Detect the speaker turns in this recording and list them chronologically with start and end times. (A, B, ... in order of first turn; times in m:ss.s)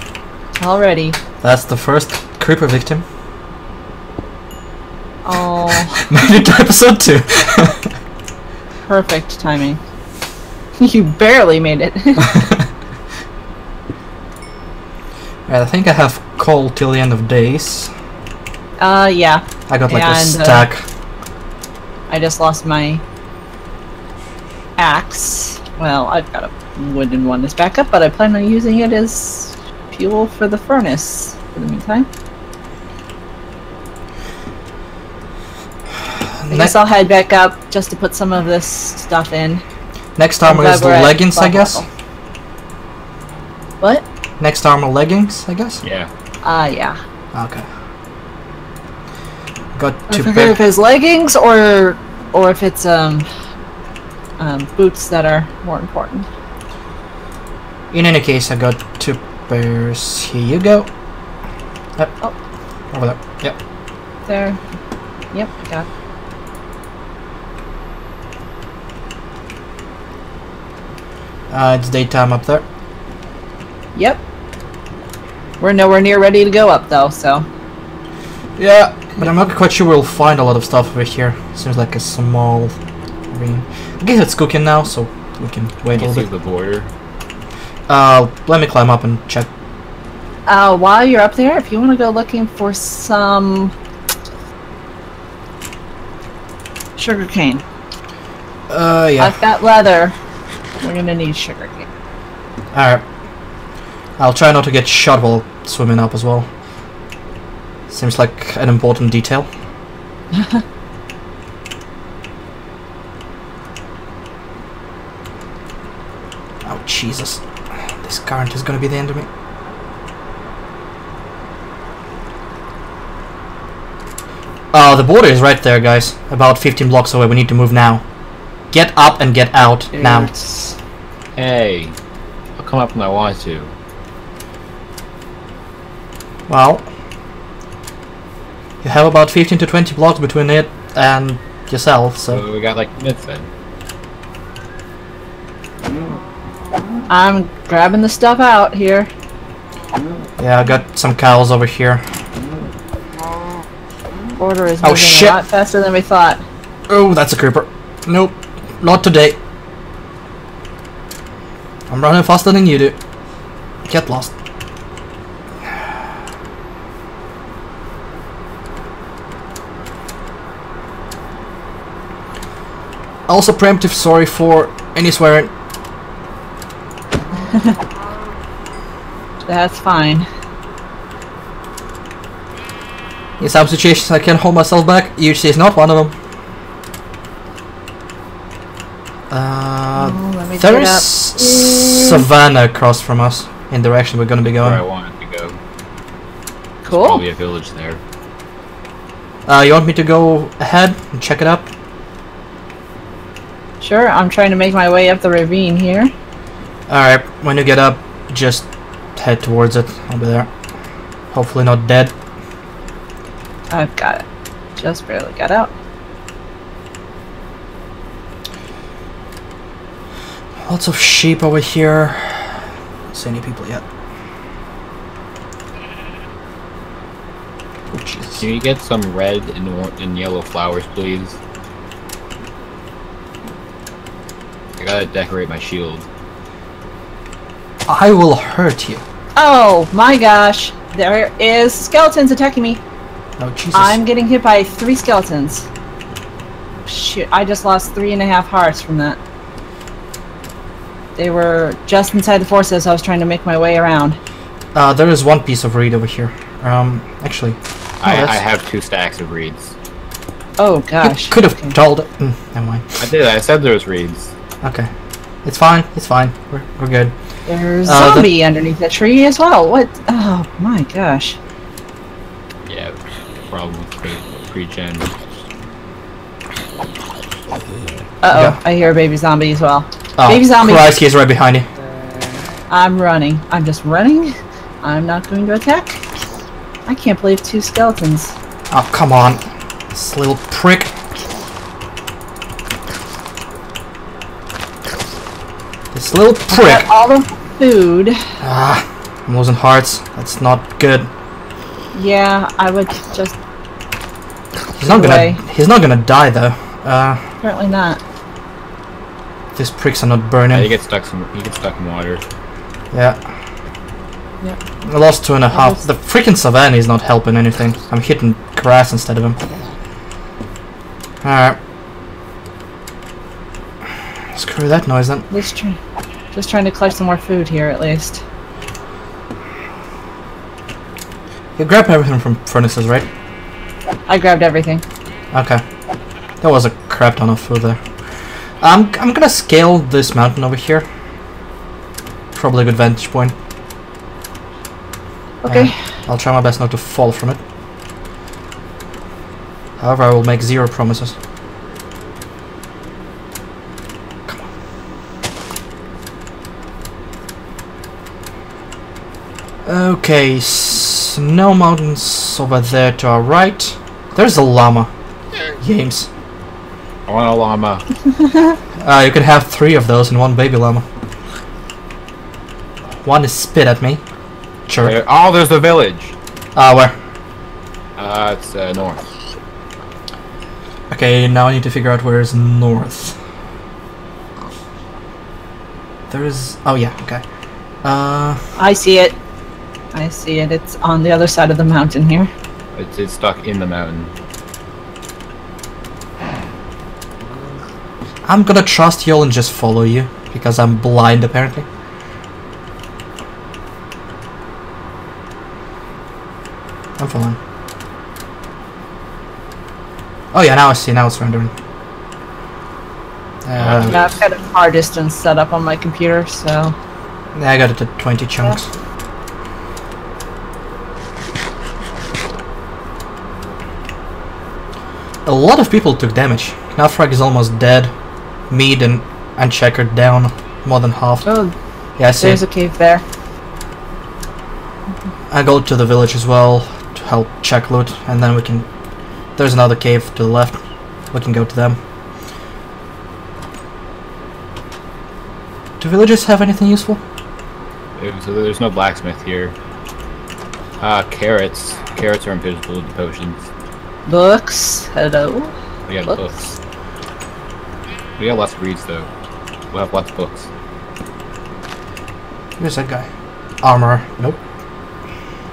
0:00.6-0:01.2 A
0:01.4-0:03.0 B
0:05.2-0:06.1 A
0:05.9-0:07.9 B
0:08.8-0:09.8 A
0:10.8-0:12.4 A
0:12.3-0:12.6 B
0:15.5-0:17.9 B
0:18.8-0:20.7 A
0:19.7-0:20.8 B
0:22.1-0:23.0 A
0:24.8-0:32.1 A
0:36.1-0:36.7 B
0:36.5-0:39.6 A
0:40.2-0:41.8 B
0:40.4-0:41.9 A
0:44.4-0:45.8 B
0:45.8-0:46.1 C
0:46.4-0:47.0 A
0:47.3-0:47.7 B
0:49.7-0:50.6 B
0:50.1-0:53.3 A
0:54.4-0:56.3 A
0:57.9-1:00.9 B
1:02.9-1:03.6 B
1:04.2-1:04.6 A
1:05.3-1:05.9 A
1:11.5-1:12.6 B
1:13.9-1:14.2 A
1:15.6-1:17.4 A
1:18.6-1:22.8 B
1:23.3-1:26.3 B
1:25.9-1:26.9 C
1:27.9-1:29.5 B
1:30.5-1:33.7 A
1:37.0-1:37.6 A
1:38.7-1:39.4 B
1:39.2-1:40.1 A
1:40.8-1:41.9 A
1:42.7-1:43.0 B
1:44.2-1:46.5 B
1:47.9-1:49.5 B
1:50.3-1:50.6 A
1:56.6-1:59.3 B
2:04.7-2:08.0 B
2:08.7-2:10.3 B
2:09.9-2:10.8 A
2:11.4-2:12.0 C
2:12.6-2:13.7 C
2:16.5-2:16.9 B
2:18.8-2:22.4 B
2:22.3-2:23.5 C
2:27.1-2:29.1 A
2:30.4-2:32.0 B
2:34.4-2:36.4 A
2:34.8-2:35.4 B
2:36.9-2:39.4 B
2:41.9-2:43.0 B
2:43.8-2:44.3 B
2:53.3-2:55.5 B
2:59.4-3:00.3 A
3:03.4-3:06.1 B
3:09.3-3:14.8 B
3:09.9-3:12.2 A
3:14.4-3:15.6 C
3:16.8-3:17.2 A
3:16.9-3:18.0 C
3:19.4-3:21.7 B
3:23.8-3:26.1 A
3:26.9-3:30.5 B
3:31.3-3:32.1 B
3:33.7-3:34.2 A
3:34.8-3:35.7 A
3:40.6-3:43.8 B
3:47.9-3:48.4 B
3:48.4-3:51.4 C
3:54.8-3:56.0 C
3:57.9-3:59.0 B
3:59.4-4:02.8 A
4:03.4-4:04.0 B
4:03.7-4:05.7 A
4:06.8-4:09.2 A
4:11.2-4:14.2 A
4:14.7-4:18.4 B
4:18.0-4:19.7 C
4:20.6-4:21.7 A
4:21.0-4:23.0 B
4:23.0-4:24.3 C
4:24.6-4:24.9 B
4:25.4-4:27.1 B
4:27.4-4:31.4 A
4:27.8-4:28.3 B
4:32.6-4:33.0 C
4:33.5-4:35.1 C
4:38.2-4:41.0 A
4:38.3-4:38.6 B
4:40.2-4:41.7 B
4:42.7-4:46.0 A
4:46.8-4:48.3 A
4:48.7-4:50.9 B
4:55.9-4:56.9 B
4:56.5-4:58.2 A
4:58.4-5:01.1 B
5:01.9-5:03.4 A
5:04.8-5:07.2 B
5:04.8-5:05.4 A
5:07.4-5:08.0 A
5:09.5-5:10.7 B
5:10.5-5:12.2 C
5:12.9-5:13.2 B
5:14.8-5:19.4 B
5:15.5-5:15.8 A
5:21.2-5:21.6 B
5:24.3-5:25.3 B
5:25.3-5:25.8 A
5:26.3-5:28.2 A
5:31.6-5:33.1 B
5:34.1-5:34.8 A
5:35.3-5:35.6 B
5:36.4-5:37.8 B
5:38.6-5:40.8 B
5:42.3-5:43.3 B
5:45.4-5:45.7 A
5:45.4-5:47.4 B
5:49.8-5:51.1 B
5:59.6-6:04.9 B
6:05.6-6:06.1 B
6:07.1-6:07.9 C
6:08.8-6:10.8 B
6:13.0-6:14.0 B
6:14.7-6:15.0 B
6:14.8-6:16.1 C
6:16.5-6:16.9 B
6:18.0-6:19.0 C
6:20.9-6:23.2 B
6:26.1-6:27.2 B
6:27.8-6:28.4 B
6:28.6-6:29.2 A
6:29.9-6:32.3 A
6:32.7-6:34.1 C
6:38.2-6:41.6 B
6:47.0-6:47.4 B
6:50.3-6:51.5 B
6:53.4-6:54.0 B
6:53.5-6:54.2 C
6:53.8-6:56.7 A
6:57.3-6:58.7 B
7:05.2-7:07.9 B
7:08.5-7:11.2 B
7:11.2-7:11.5 A
7:12.0-7:12.4 B
7:12.2-7:13.0 A
7:15.3-7:18.7 B
7:19.4-7:20.6 B
7:21.1-7:21.8 B
7:25.8-7:27.0 B
7:28.0-7:29.5 C
7:30.8-7:33.4 C
7:34.0-7:35.5 A
7:35.9-7:36.6 C
7:38.2-7:39.1 C
7:39.7-7:40.5 C
7:42.6-7:43.1 B
7:43.6-7:44.4 B